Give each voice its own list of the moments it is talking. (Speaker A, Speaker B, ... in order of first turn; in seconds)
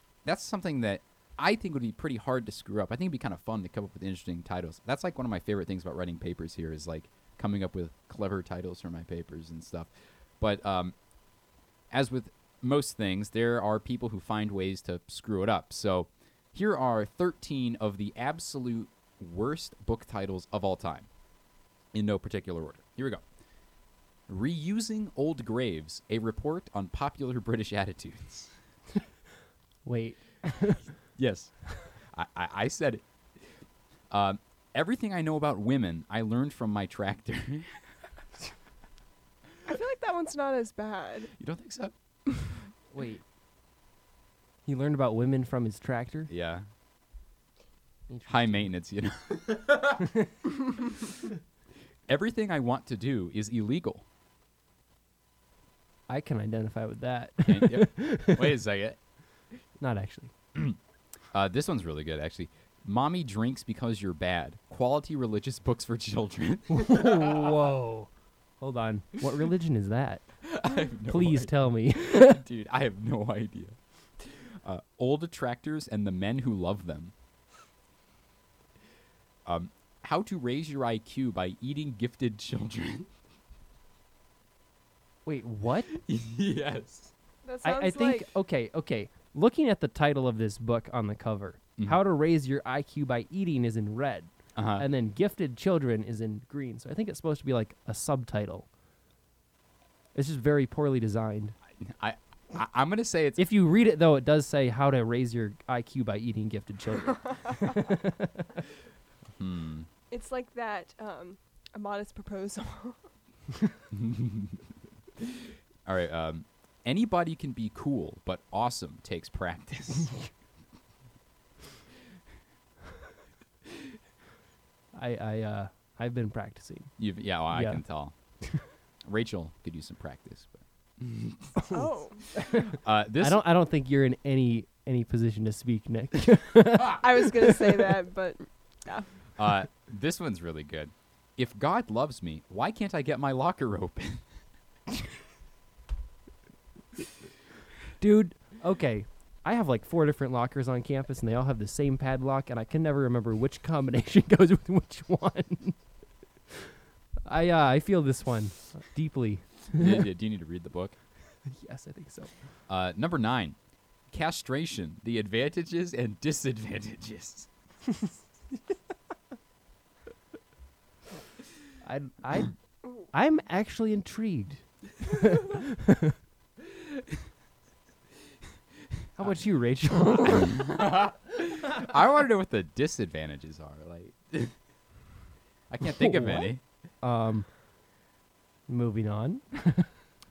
Speaker A: 0.2-10.9, 11.9-21.1, 21.9-23.2, 24.3-28.5, 31.1-33.6, 34.1-37.8, 41.4-41.9, 46.3-46.6, 48.3-50.0, 52.1-54.0, 57.4-59.0, 61.3-67.5, 70.4-77.1, 79.5-83.1, 85.9-87.1, 94.6-94.8, 101.8-103.4, 109.4-109.9, 113.9-114.7, 115.2-120.2, 127.0-128.1, 129.1-131.6, 132.7-133.4, 139.4-144.2, 159.7-161.0, 162.7-163.6, 164.1-167.5, 176.8-177.2, 180.2-184.5, 185.7-186.6
Speaker B: 29.9-30.9, 42.9-43.2, 44.7-46.3, 48.1-48.5, 50.0-50.3, 56.1-58.5, 59.8-60.3, 66.7-70.2, 71.1-72.4, 85.3-85.9, 87.6-98.7, 100.2-101.5, 103.4-108.5, 124.9-126.9, 127.5-127.8, 132.4-137.9, 148.0-155.8, 157.2-160.0, 161.5-162.3, 171.8-176.1, 179.2-180.6, 185.8-187.5, 188.7-189.9
Speaker C: 39.7-41.3, 87.5-88.3, 110.1-113.0, 131.7-132.3, 136.9-139.1